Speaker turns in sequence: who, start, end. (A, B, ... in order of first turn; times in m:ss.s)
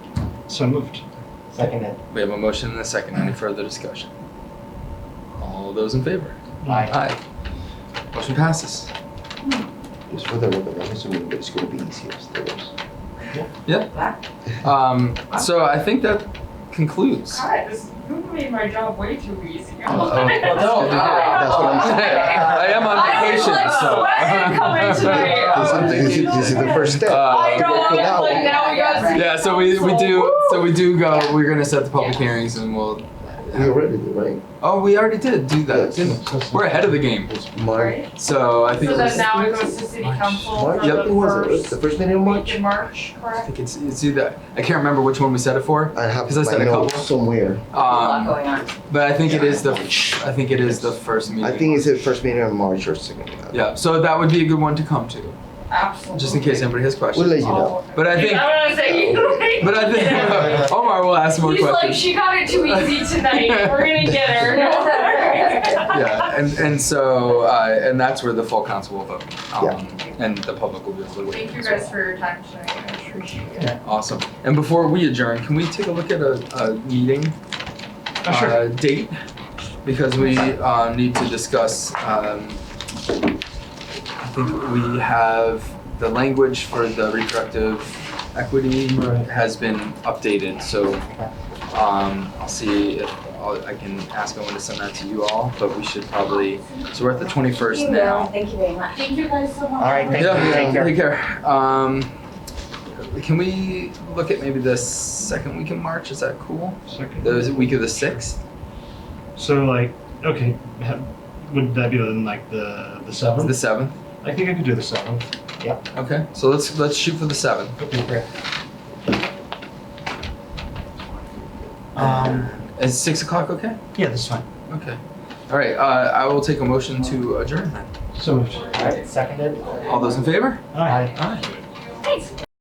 0:00.5-0:01.0 A
0:01.5-0:02.0 B
0:02.1-0:04.1 C
0:05.4-0:07.2 C
0:06.6-0:06.9 A
0:06.7-0:06.9 B
0:08.1-0:08.9 C
0:10.1-0:12.7 D
0:13.6-0:14.0 C
0:14.6-0:17.4 C
0:17.3-0:30.8 E
0:19.9-0:28.3 C
0:20.9-0:21.3 F
0:21.1-0:22.8 D
0:23.0-0:24.3 F
0:25.0-0:28.7 D
0:27.6-0:29.4 F
0:29.0-0:33.8 C
0:32.0-0:32.2 F
0:33.5-0:34.4 D
0:34.6-0:37.3 C
0:35.7-0:36.3 D
0:36.2-0:36.7 A
0:37.2-0:38.0 D
0:37.7-0:38.1 E
0:38.2-0:39.3 C
0:38.7-0:39.8 D
0:38.7-0:43.5 E
0:40.0-0:41.1 C
0:40.4-0:42.6 D
0:43.4-0:47.1 C
0:45.9-0:47.7 D
0:47.7-0:52.1 C
0:47.7-0:48.7 F
0:49.2-0:53.6 D
0:53.5-0:55.4 C
0:55.7-0:56.8 E
0:56.1-0:58.7 C
0:57.1-0:57.8 D
0:57.4-1:06.3 E
0:58.8-0:59.7 D
0:59.6-1:04.4 C
1:00.4-1:00.7 D
1:04.6-1:05.9 F
1:05.8-1:12.0 C
1:11.3-1:13.8 E
1:13.8-1:17.4 C
1:18.2-1:18.6 A
1:18.2-1:19.2 C
1:19.8-1:22.6 C
1:24.2-1:31.1 C
1:28.9-1:29.3 A
1:31.7-1:38.3 C
1:37.6-1:39.1 F
1:38.9-1:40.8 E
1:39.9-1:40.8 B
1:40.1-1:40.9 D
1:40.1-1:42.1 C
1:42.9-1:48.4 C
1:46.9-1:48.1 A
1:49.4-1:53.6 A
1:53.4-1:54.0 C
1:54.2-1:55.3 A
1:55.9-1:57.8 C
1:57.8-1:58.2 A
2:02.0-2:03.8 C
2:02.1-2:02.4 B
2:04.0-2:04.4 A
2:04.7-2:07.9 C
2:08.1-2:08.8 A
2:08.5-2:10.3 E
2:08.7-2:09.7 B
2:09.8-2:11.5 C
2:10.7-2:11.1 A
2:10.8-2:11.1 B